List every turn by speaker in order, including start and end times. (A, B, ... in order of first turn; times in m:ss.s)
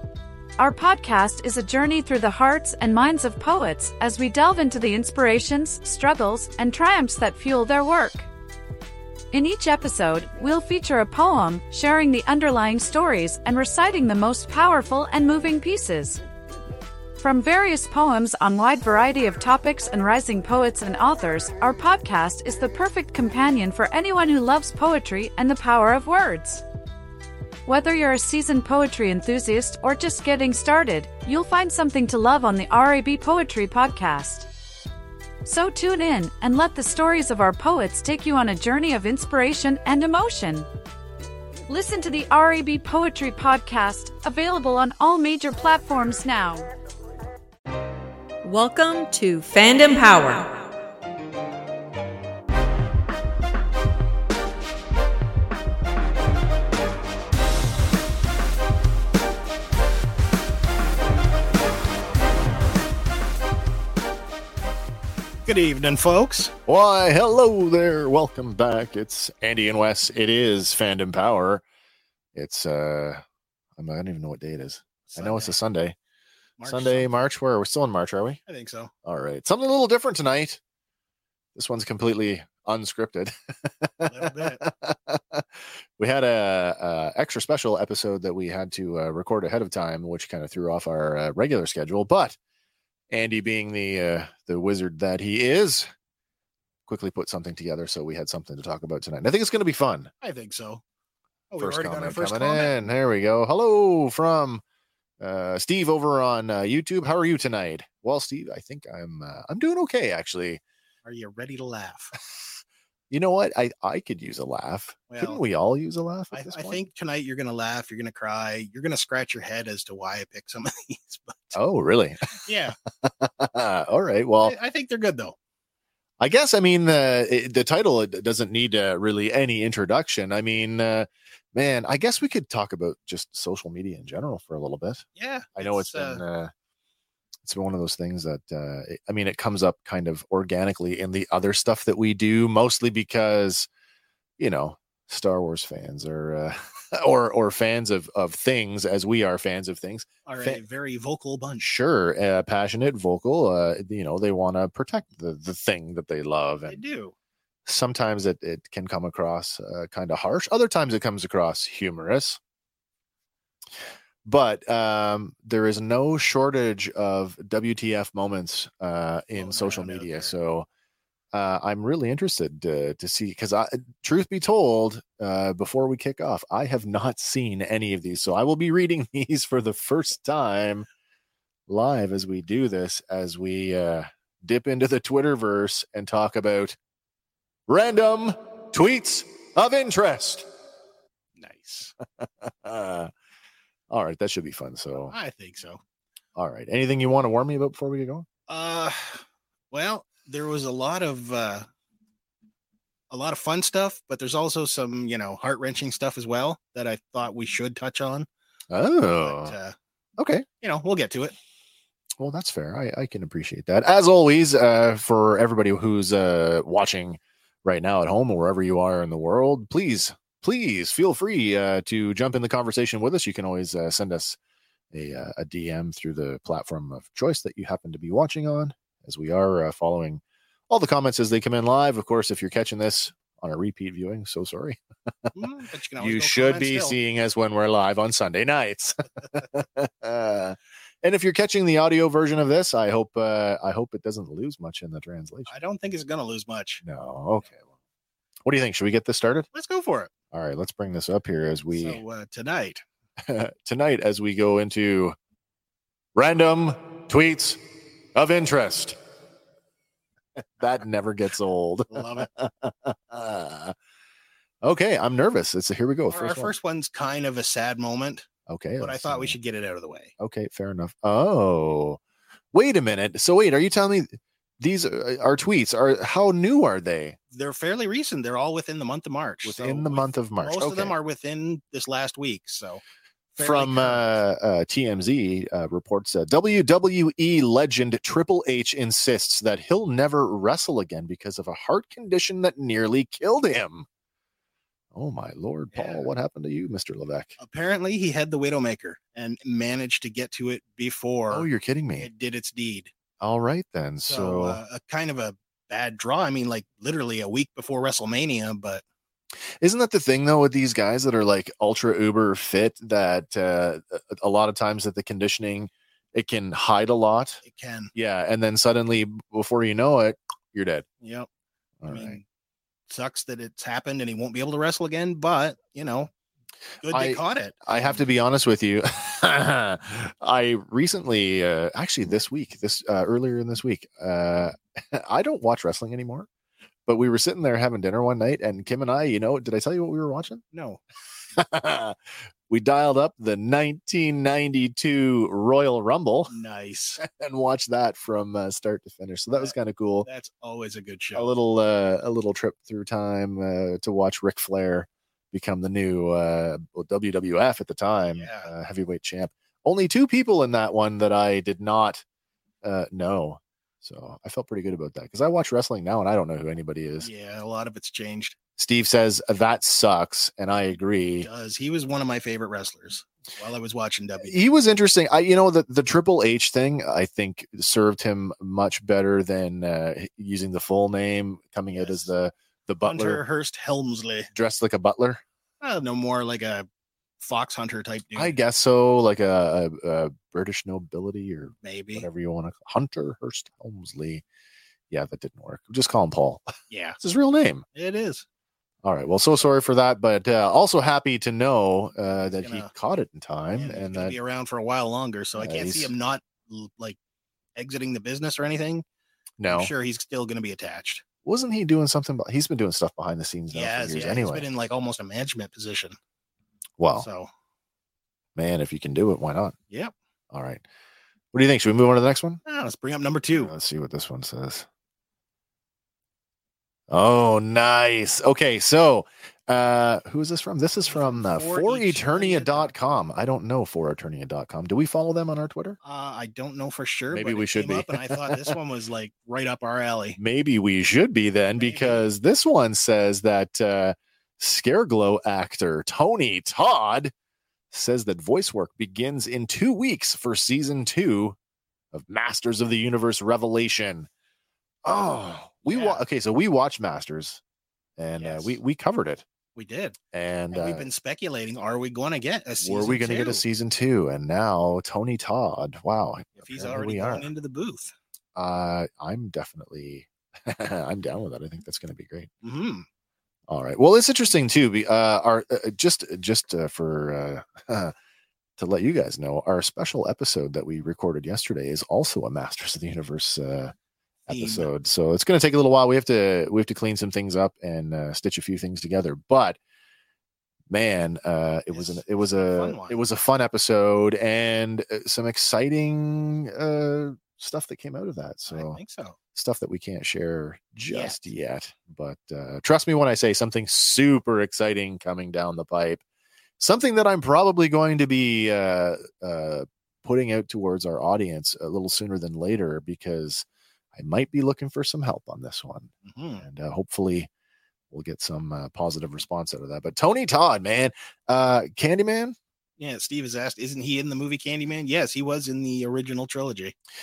0:00.6-0:08.3 A
0:09.3-0:16.2 A
0:17.2-0:26.6 A
0:27.7-0:34.5 A
0:35.4-0:40.7 A
0:41.7-0:46.7 A
0:48.4-0:50.6 B
1:05.5-1:06.5 C
1:06.7-1:11.6 D
1:12.3-1:13.2 D
1:13.8-1:16.0 D
1:15.1-1:15.6 C
1:16.6-1:17.1 C
1:16.6-1:18.4 D
1:18.5-1:18.9 C
1:19.0-1:20.6 D
1:21.6-1:32.4 D
1:24.1-1:24.6 C
1:33.1-1:35.9 D
1:36.9-1:40.1 D
1:40.2-1:40.8 C
1:41.5-1:42.8 C
1:41.6-1:44.6 D
1:45.2-1:50.6 D
1:51.0-1:52.1 C
1:53.1-1:56.8 D
1:55.1-1:55.4 C
1:56.3-2:01.6 C
2:01.6-2:02.5 D
2:02.4-2:02.8 C
2:03.0-2:04.6 D
2:04.4-2:05.4 C
2:06.2-2:15.0 D
2:15.2-2:16.2 C
2:15.6-2:16.5 D
2:17.4-2:23.7 D
2:24.4-2:30.6 D
2:30.2-2:31.7 C
2:31.6-2:36.8 D
2:36.7-2:37.1 C
2:37.7-2:42.4 D
2:44.2-2:50.7 D
2:49.4-2:50.3 C
2:51.3-3:00.9 D
3:01.7-3:06.8 D
3:07.7-3:10.5 D
3:11.4-3:11.9 C
3:12.2-3:13.1 D
3:13.9-3:15.2 D
3:15.1-3:15.8 C
3:16.4-3:18.3 D
3:18.5-3:21.7 C
3:23.1-3:28.3 C
3:28.7-3:29.6 D
3:29.2-3:29.8 C
3:30.2-3:30.5 D
3:30.6-3:31.4 C
3:32.2-3:44.4 D
3:44.9-3:55.3 D
3:55.4-3:57.0 C
3:56.0-4:05.5 D
4:05.5-4:06.8 C
4:06.8-4:07.7 D
4:08.4-4:09.5 D
4:09.5-4:10.1 C
4:10.3-4:12.0 D
4:11.7-4:12.8 C
4:13.2-4:15.2 D
4:16.2-4:17.6 D
4:18.2-4:19.0 D
4:20.6-4:23.8 D
4:21.9-4:22.3 C
4:24.6-4:26.5 D
4:26.1-4:28.3 C
4:28.5-4:29.4 D
4:28.8-4:30.1 C
4:30.2-4:32.0 D
4:32.5-4:37.2 D
4:37.3-4:42.8 C
4:39.4-4:41.0 D
4:43.4-4:44.2 C
4:43.4-4:53.9 D
4:54.9-4:57.4 D
4:55.7-4:56.1 C
4:57.4-5:02.9 C
5:01.3-5:02.1 D
5:03.2-5:04.6 D
5:04.0-5:08.8 C
5:09.6-5:17.4 D
5:17.5-5:17.9 C
5:18.0-5:20.9 D
5:21.0-5:21.3 C
5:21.8-5:22.2 D
5:21.9-5:22.2 C
5:22.9-5:26.1 C
5:26.8-5:28.1 C
5:26.8-5:36.3 D
5:36.9-5:40.4 D
5:40.5-5:40.8 C
5:41.4-5:46.3 D
5:46.3-5:47.0 C
5:47.0-5:50.1 D
5:49.3-5:51.3 C
5:51.2-6:02.0 D
5:58.1-5:58.5 C
6:02.6-6:07.1 D
6:07.0-6:08.4 C
6:08.6-6:11.3 D
6:11.2-6:14.4 C
6:14.2-6:23.2 D
6:21.7-6:22.1 C
6:22.8-6:24.3 C
6:24.4-6:25.2 D
6:25.6-6:26.7 C
6:27.2-6:28.4 C
6:28.2-6:34.2 D
6:31.6-6:32.1 C
6:34.9-6:37.7 D
6:36.7-6:37.0 C
6:37.8-6:38.2 C
6:38.8-6:44.2 D
6:42.3-6:42.7 C
6:43.5-6:47.0 C
6:45.4-6:45.9 D
6:47.6-6:48.8 C
6:49.4-6:49.7 D
6:49.5-6:51.0 C
6:51.2-6:54.5 D
6:53.5-6:56.0 C
6:56.8-6:57.1 D
6:57.0-6:57.3 C
6:58.4-6:59.6 D
7:00.3-7:00.6 D
7:01.3-7:02.4 D
7:02.5-7:03.5 C
7:03.3-7:04.7 D
7:06.9-7:15.8 D
7:10.8-7:12.7 C
7:15.8-7:20.2 C
7:17.1-7:18.6 D
7:20.2-7:27.1 D
7:21.6-7:22.1 C
7:27.7-7:31.4 D
7:31.9-7:34.1 D
7:34.8-7:37.4 D
7:35.7-7:36.0 C
7:38.0-7:39.2 D
7:38.2-7:38.6 C
7:39.6-7:40.0 C
7:40.1-7:40.9 D
7:40.5-7:43.4 C
7:42.6-7:47.3 D
7:46.4-7:47.9 C
7:48.4-7:52.3 D
7:52.4-7:52.9 C
7:53.5-7:57.9 D
7:58.6-8:03.7 D
8:04.3-8:09.6 D
8:04.3-8:04.7 C
8:10.7-8:18.8 D
8:11.7-8:13.0 C
8:18.5-8:19.2 C
8:19.3-8:26.0 D
8:20.9-8:21.2 C
8:26.6-8:37.3 D
8:36.0-8:36.4 C
8:37.9-8:42.4 D
8:42.8-8:46.8 C